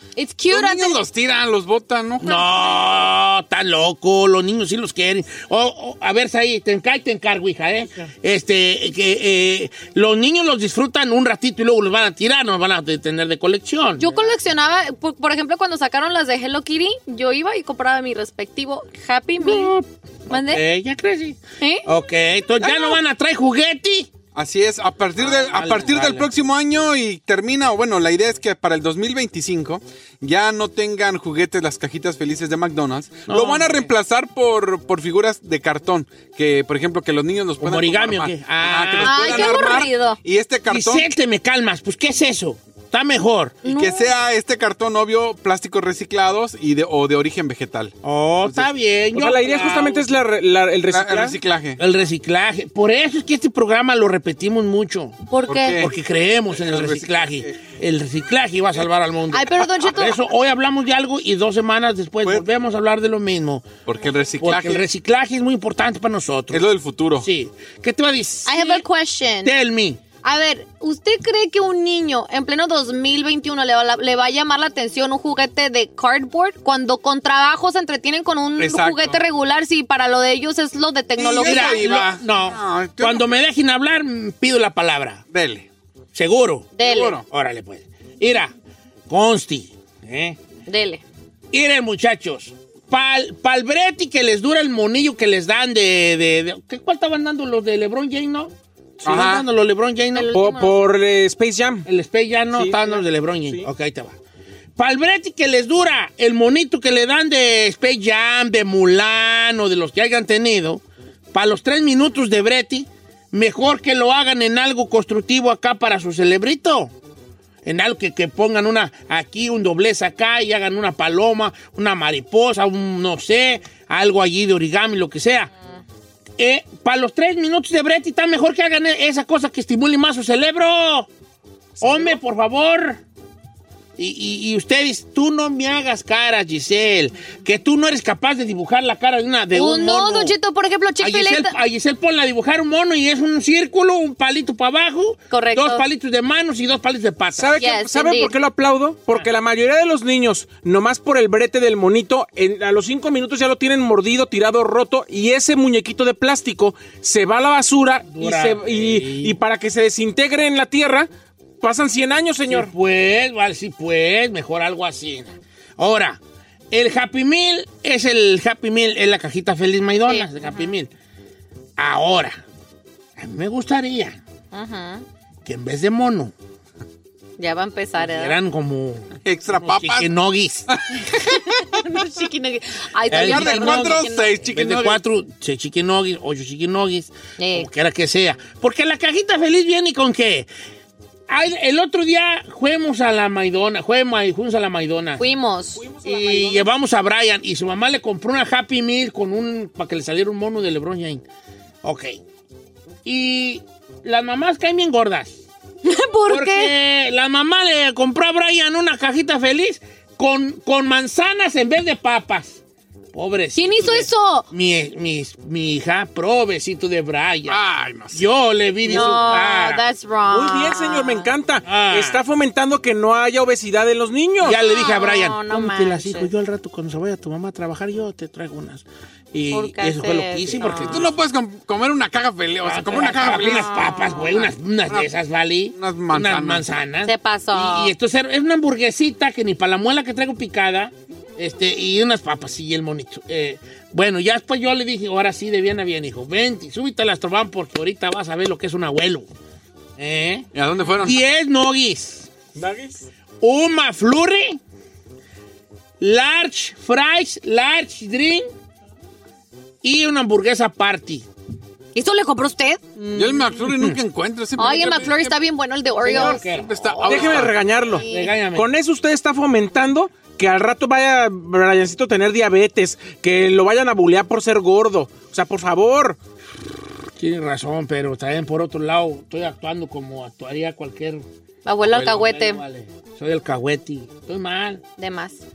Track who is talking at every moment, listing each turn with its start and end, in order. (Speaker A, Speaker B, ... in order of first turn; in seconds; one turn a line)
Speaker A: 0.2-1.0
Speaker B: 0.5-3.0
Speaker C: 2.2-14.3
Speaker A: 14.0-19.7
Speaker C: 19.4-24.1
Speaker A: 20.3-20.6
Speaker A: 21.6-21.9
Speaker A: 22.6-23.0
Speaker B: 24.3-41.1
Speaker C: 25.2-26.3
Speaker C: 33.3-33.9
Speaker C: 37.6-39.6
Speaker A: 39.0-40.2
Speaker C: 40.7-43.6
Speaker A: 43.6-44.1
Speaker B: 43.6-48.7
Speaker C: 48.0-50.0
Speaker D: 49.1-51.4
Speaker B: 50.9-51.8
Speaker C: 51.8-55.2
Speaker A: 55.3-55.8
Speaker B: 55.5-55.9
Speaker C: 55.8-63.7
Speaker B: 56.5-57.6
Speaker A: 59.3-60.2
Speaker B: 63.9-64.8
Speaker C: 64.4-66.6
Speaker B: 66.5-67.2
Speaker C: 67.2-68.8
Speaker A: 68.5-69.5
Speaker C: 69.4-70.0
Speaker A: 70.2-81.9
Speaker B: 78.6-79.2
Speaker B: 81.2-83.4
Speaker C: 81.3-85.2
Speaker B: 85.3-85.7
Speaker C: 86.1-88.5
Speaker A: 86.8-87.1
Speaker B: 86.8-87.2
Speaker C: 89.1-90.4
Speaker A: 90.7-91.0
Speaker C: 91.5-98.5
Speaker C: 99.0-100.3
Speaker B: 99.0-99.5
Speaker A: 100.1-100.8
Speaker D: 100.3-101.8
Speaker C: 101.8-104.2
Speaker D: 102.5-103.7
Speaker C: 104.8-110.8
Speaker C: 111.3-116.9
Speaker C: 117.6-125.5
Speaker C: 126.4-131.1
Speaker C: 131.8-133.0
Speaker C: 134.0-140.4
Speaker A: 139.5-141.6
Speaker C: 141.0-147.5
Speaker A: 145.3-145.8
Speaker D: 147.4-161.1
Speaker A: 147.6-148.3
Speaker C: 158.1-159.3
Speaker D: 161.6-162.7
Speaker C: 162.5-166.2
Speaker C: 166.7-170.9
Speaker A: 170.1-170.7
Speaker C: 171.8-172.4
Speaker C: 173.2-174.2
Speaker A: 174.5-175.0
Speaker C: 175.4-176.3
Speaker A: 177.4-178.4
Speaker C: 178.0-180.7
Speaker B: 179.2-180.1
Speaker B: 180.7-181.0
Speaker A: 181.0-184.4
Speaker C: 183.1-190.5
Speaker B: 183.1-185.0
Speaker A: 187.4-187.7
Speaker C: 191.3-195.3
Speaker A: 195.2-195.9
Speaker D: 195.8-196.7
Speaker C: 196.0-201.2
Speaker C: 201.8-202.2
Speaker C: 203.0-205.4
Speaker A: 205.8-206.7
Speaker C: 206.3-212.6
Speaker C: 213.1-217.6
Speaker A: 213.5-214.4
Speaker B: 217.5-218.3
Speaker C: 218.1-219.8
Speaker A: 218.8-221.3
Speaker D: 220.3-224.6
Speaker C: 221.6-222.2
Speaker C: 224.4-231.1
Speaker A: 224.5-226.3
Speaker A: 229.5-231.1
Speaker B: 230.6-235.1
Speaker C: 232.6-249.2
Speaker A: 233.3-234.4
Speaker B: 235.7-236.7
Speaker A: 237.0-237.9
Speaker C: 250.0-250.5
Speaker B: 250.5-251.2
Speaker C: 251.0-252.3
Speaker D: 252.6-253.0
Speaker C: 253.4-254.6
Speaker C: 256.0-258.5
Speaker C: 259.8-261.2
Speaker A: 261.9-262.8
Speaker C: 263.0-264.0
Speaker B: 263.1-265.4
Speaker A: 264.6-268.3
Speaker C: 266.0-267.2
Speaker B: 266.0-267.6
Speaker D: 267.1-276.2
Speaker C: 268.1-268.7
Speaker C: 277.2-281.2
Speaker A: 281.6-282.6
Speaker C: 281.8-284.8
Speaker A: 285.0-285.4